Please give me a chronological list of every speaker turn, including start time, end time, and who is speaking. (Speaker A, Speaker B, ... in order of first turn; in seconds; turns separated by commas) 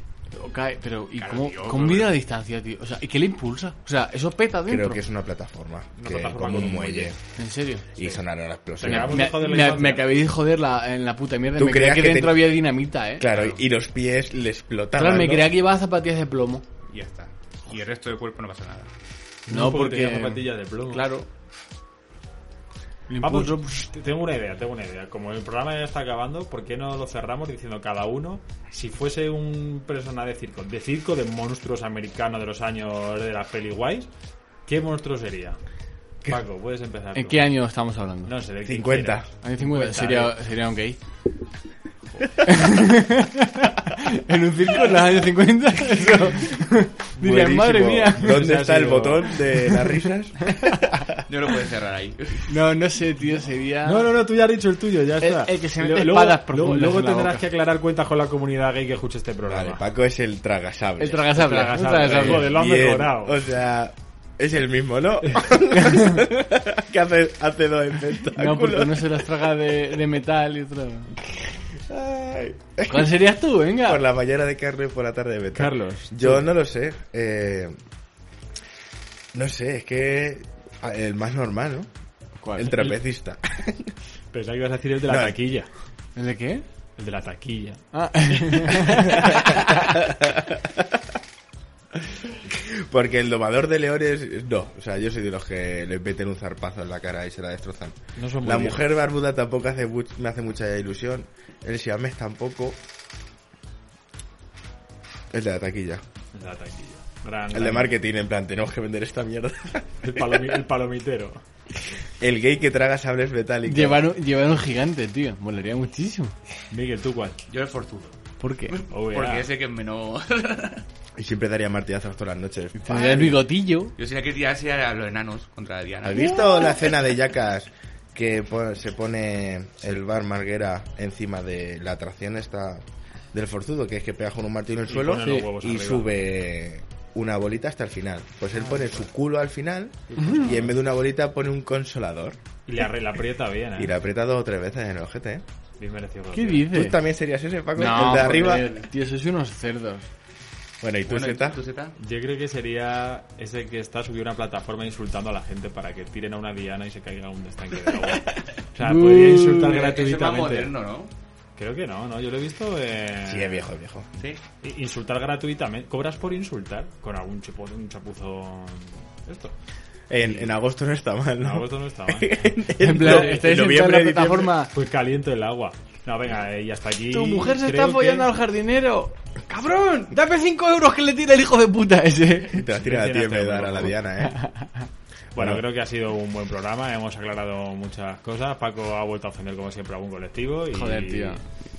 Speaker A: 0.3-5.0, Speaker B: 1.2-2.2, Speaker C: 4.7-7.2, Speaker D: 6.0-7.2, Speaker A: 7.4-7.9, Speaker C: 8.0-9.2, Speaker D: 8.8-10.1, Speaker A: 8.8-13.3, Speaker C: 11.6-12.6, Speaker C: 13.2-15.5, Speaker B: 13.3-13.7, Speaker A: 15.0-16.6, Speaker B: 16.9-18.9, Speaker D: 19.5-21.1, Speaker A: 19.5-21.3, Speaker A: 23.1-23.9, Speaker D: 23.2-34.1, Speaker D: 34.7-35.6, Speaker D: 36.2-37.6, Speaker A: 37.1-38.4, Speaker D: 38.2-40.4, Speaker C: 38.6-39.3, Speaker A: 39.4-41.0, Speaker A: 42.4-48.4, Speaker C: 47.2-51.2, Speaker D: 48.2-49.3, Speaker A: 50.5-50.8, Speaker B: 51.3-52.6, Speaker A: 52.5-54.2, Speaker D: 53.8-59.8, Speaker A: 55.2-57.5, Speaker C: 59.5-61.5, Speaker A: 61.0-62.6, Speaker D: 61.3-63.4, Speaker C: 62.0-69.3, Speaker A: 68.3-71.2, Speaker C: 71.9-77.8, Speaker A: 72.9-74.0, Speaker A: 75.6-76.1, Speaker C: 79.3-81.9, Speaker A: 82.4-83.0, Speaker C: 82.5-83.9, Speaker D: 84.3-85.7, Speaker C: 85.0-85.4, Speaker A: 86.2-86.7, Speaker D: 87.0-87.8, Speaker A: 87.9-89.5, Speaker C: 89.8-90.8, Speaker C: 92.5-102.8, Speaker D: 98.2-98.8, Speaker C: 105.3-106.0, Speaker D: 106.3-108.0, Speaker C: 107.5-110.2, Speaker D: 110.0-111.4, Speaker C: 112.2-114.1, Speaker A: 113.6-116.3, Speaker D: 116.7-117.4, Speaker B: 117.5-118.2, Speaker A: 118.4-118.8, Speaker B: 118.7-120.9, Speaker D: 118.9-119.5, Speaker C: 121.2-123.4, Speaker A: 122.8-123.9, Speaker B: 124.0-126.3, Speaker C: 126.0-142.4, Speaker A: 126.2-126.8, Speaker D: 134.9-136.2, Speaker D: 138.5-139.1, Speaker D: 140.1-140.8, Speaker D: 142.7-144.0, Speaker C: 143.8-145.4, Speaker D: 145.8-146.7, Speaker A: 146.3-147.0, Speaker C: 146.7-148.7, Speaker A: 147.7-150.1, Speaker C: 150.8-151.6, Speaker B: 151.1-151.9, Speaker D: 152.0-160.8, Speaker A: 158.8-159.8, Speaker B: 159.7-161.1, Speaker D: 161.6-163.7, Speaker C: 163.2-164.1, Speaker B: 164.2-164.4, Speaker D: 164.6-169.6, Speaker C: 170.1-174.6, Speaker D: 170.2-170.6, Speaker D: 171.4-172.4, Speaker A: 172.8-174.8, Speaker D: 172.9-173.6, Speaker D: 174.7-178.3, Speaker A: 177.1-182.7, Speaker C: 182.5-184.4, Speaker D: 182.8-184.0, Speaker A: 184.2-184.9, Speaker D: 185.3-191.4, Speaker C: 185.4-185.6, Speaker A: 190.7-191.4